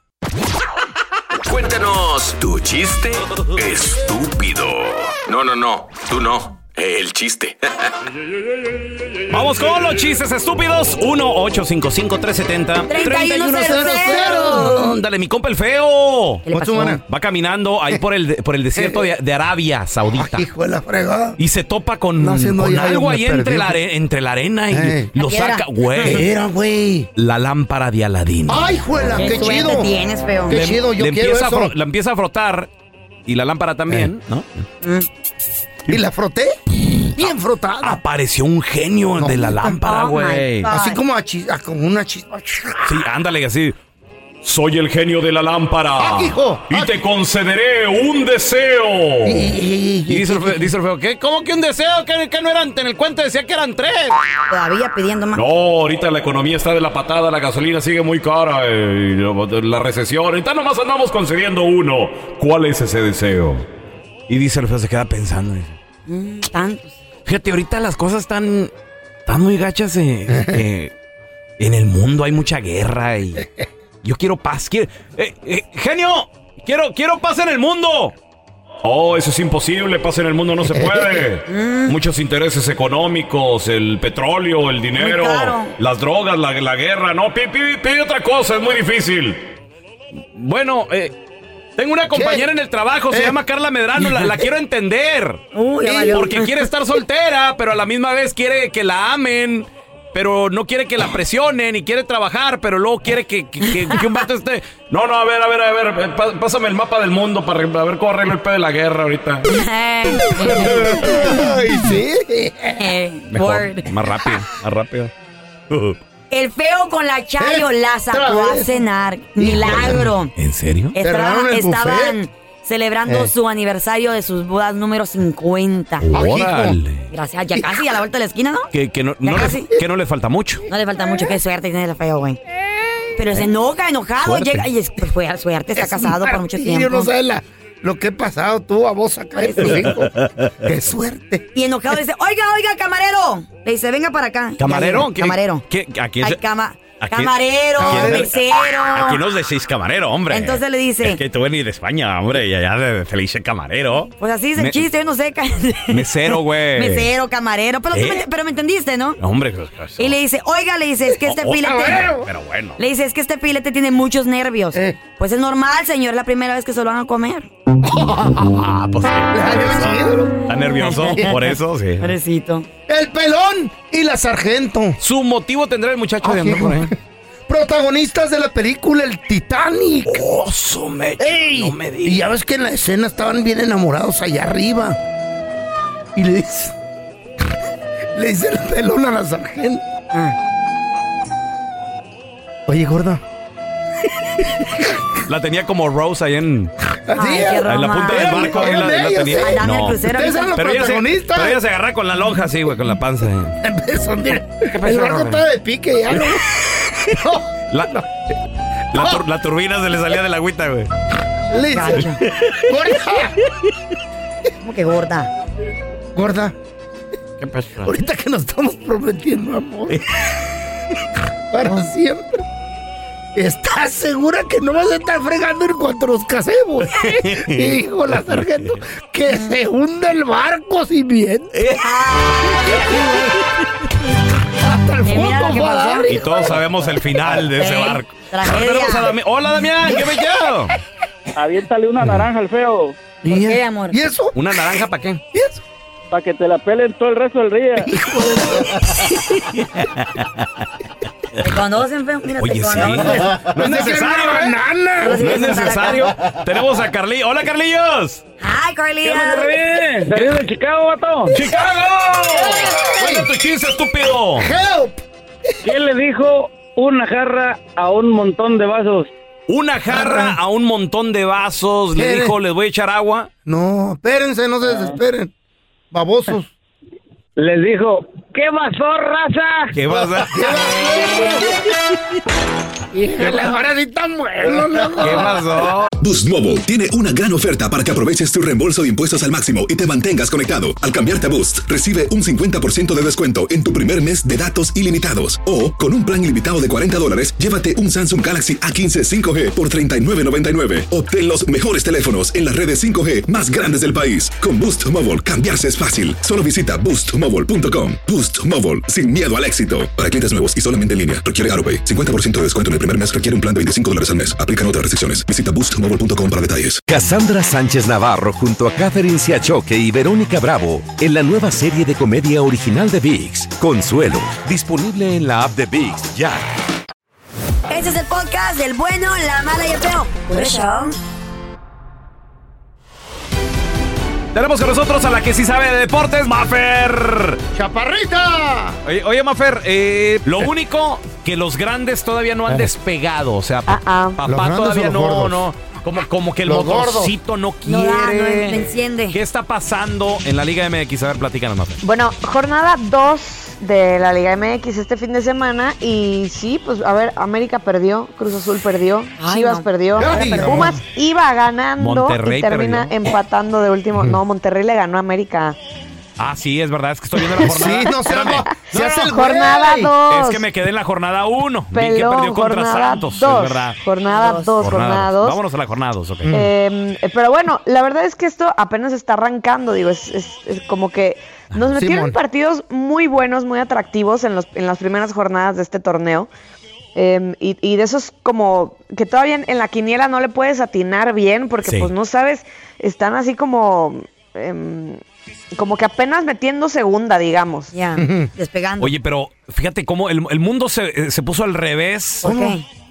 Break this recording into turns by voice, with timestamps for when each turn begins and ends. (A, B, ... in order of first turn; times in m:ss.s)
0:01.5-0:07.8 A
0:09.3-0:16.4 B
0:12.8-0:14.9 C
0:13.7-0:15.0 D
0:16.4-0:17.0 C
0:16.5-0:17.0 D
0:17.0-0:20.5 B
0:18.8-0:19.0 D
0:20.2-0:21.4 D
0:21.4-0:26.3 B
0:22.2-0:23.8 D
0:24.7-0:25.1 D
0:25.1-0:25.6 C
0:26.0-0:27.1 D
0:27.2-0:28.6 B
0:28.5-0:29.9 D
0:29.1-0:30.6 C
0:30.5-0:31.7 D
0:30.5-0:32.7 B
0:33.2-0:34.6 B
0:35.9-0:36.6 D
0:37.1-0:38.0 D
0:37.2-0:40.7 B
0:39.2-0:39.8 D
0:39.8-0:41.0 C
0:40.7-0:42.9 D
0:42.8-0:43.7 B
0:44.4-0:49.5 B
0:46.0-0:47.0 D
0:49.2-0:50.7 D
0:50.1-0:54.2 B
0:54.5-0:55.4 C
0:55.3-1:03.6 B
1:04.3-1:05.8 B
1:06.1-1:07.0 C
1:07.2-1:08.7 B
1:09.2-1:10.9 B
1:11.6-1:13.5 B
1:14.0-1:18.1 B
1:18.8-1:29.5 B
1:20.7-1:21.2 D
1:21.5-1:21.9 C
1:24.9-1:25.7 C
1:30.3-1:31.2 B
1:31.8-1:35.4 B
1:32.1-1:32.5 D
1:33.1-1:33.4 D
1:34.0-1:34.4 D
1:35.5-1:36.6 C
1:35.8-1:36.3 D
1:36.1-1:49.5 B
1:43.7-1:44.0 C
1:49.5-1:51.5 C
1:50.4-1:51.1 B
1:50.6-1:52.9 D
1:52.8-1:53.9 C
1:53.3-1:55.1 B
1:55.7-1:56.0 B
1:56.3-2:00.3 C
1:57.4-2:00.1 D
1:59.5-2:00.9 B
2:00.9-2:06.1 C
2:01.0-2:02.2 D
2:03.1-2:03.3 D
2:06.0-2:07.1 B
2:06.1-2:06.8 D
2:07.1-2:08.7 C
2:08.7-2:10.6 B
2:09.2-2:09.7 C
2:10.7-2:12.4 C
2:13.2-2:17.1 C
2:15.7-2:21.4 D
2:19.4-2:19.9 C
2:19.6-2:20.5 B
2:21.5-2:25.6 C
2:24.6-2:26.4 B
2:26.2-2:29.2 C
2:27.0-2:34.8 B
2:27.8-2:28.3 D
2:30.3-2:31.2 C
2:34.2-2:39.2 C
2:35.9-2:37.1 B
2:37.9-2:38.2 B
2:39.2-2:40.2 B
2:40.0-2:42.1 C
2:41.2-2:42.8 B
2:41.8-2:42.2 D
2:42.8-2:47.5 C
2:44.7-2:45.0 D
2:47.8-2:48.5 D
2:48.4-2:52.1 B
2:49.3-2:50.4 D
2:50.8-2:52.7 C
2:52.9-2:55.0 D
2:55.0-2:56.9 B
2:56.2-2:56.9 D
2:57.5-3:00.2 D
3:00.0-3:02.2 B
3:01.2-3:05.0 D
3:06.1-3:06.7 D
3:08.1-3:09.8 D
3:12.7-3:13.2 D
3:14.6-3:15.0 D
3:15.2-3:16.7 B
3:17.1-3:21.6 D
3:17.1-3:18.8 C
3:17.6-3:23.6 B
3:19.4-3:20.6 C
3:23.6-3:26.5 D
3:24.7-3:25.4 B
3:27.0-3:28.0 D
3:27.7-3:28.0 B
3:28.9-3:30.9 B
3:31.5-3:33.4 D
3:31.7-3:32.2 C
3:32.2-3:32.7 B
3:34.6-3:35.3 C
3:36.1-3:36.5 D
3:37.4-3:37.9 B
3:37.8-3:40.0 D
3:41.5-3:42.4 D
3:43.3-3:51.5 D
3:46.9-3:47.8 B
3:48.3-3:48.6 B
3:51.5-3:51.8 B
3:51.8-3:53.1 C
3:54.6-3:56.7 D
3:55.0-3:56.1 C
3:56.1-4:00.8 B
3:57.5-3:59.1 C
4:01.4-4:02.9 E
4:03.2-4:04.4 D
4:03.3-4:04.0 C
4:04.3-4:05.2 B
4:05.3-4:05.6 D
4:06.1-4:07.9 E
4:07.8-4:08.8 D
4:09.4-4:10.6 B
4:11.4-4:13.4 C
4:12.4-4:14.6 B
4:13.3-4:15.6 D
4:15.0-4:16.1 C
4:15.2-4:18.2 B
4:18.4-4:19.6 C
4:19.0-4:21.4 E
4:21.3-4:24.5 B
4:22.4-4:23.3 D
4:24.4-4:25.0 D
4:25.6-4:29.1 E
4:29.5-4:33.3 B
4:29.9-4:30.4 D
4:31.9-4:32.4 D
4:33.4-4:35.3 D
4:35.9-4:36.5 D
4:37.4-4:39.7 E
4:39.7-4:40.5 B
4:39.9-4:41.5 D
4:42.9-4:45.4 D
4:45.0-4:45.9 B
4:46.0-5:16.8 F
5:16.9-5:26.4 G
5:27.7-5:31.0 C
5:34.3-5:37.4 B
5:37.5-5:38.8 D
5:38.8-5:51.8 B
5:43.7-5:44.2 H
5:44.2-5:45.5 D
5:46.4-5:47.1 D
5:47.6-5:49.2 C
5:51.8-6:05.6 H
5:59.2-6:00.4 C
6:00.0-6:00.8 D
6:01.8-6:02.9 B
6:06.2-6:09.1 B
6:07.4-6:09.9 D
6:08.8-6:10.4 H
6:10.1-6:13.8 B
6:11.7-6:15.4 H
6:14.1-6:14.6 C
6:14.6-6:16.3 B
6:16.2-6:16.5 D
6:16.3-6:26.3 H
6:21.8-6:22.2 D
6:26.9-6:35.0 H
6:31.6-6:31.9 B
6:35.5-6:37.7 H
6:37.7-6:38.9 C
6:38.0-6:38.3 D
6:38.8-6:42.3 B
6:42.2-6:42.6 C
6:42.2-6:42.6 D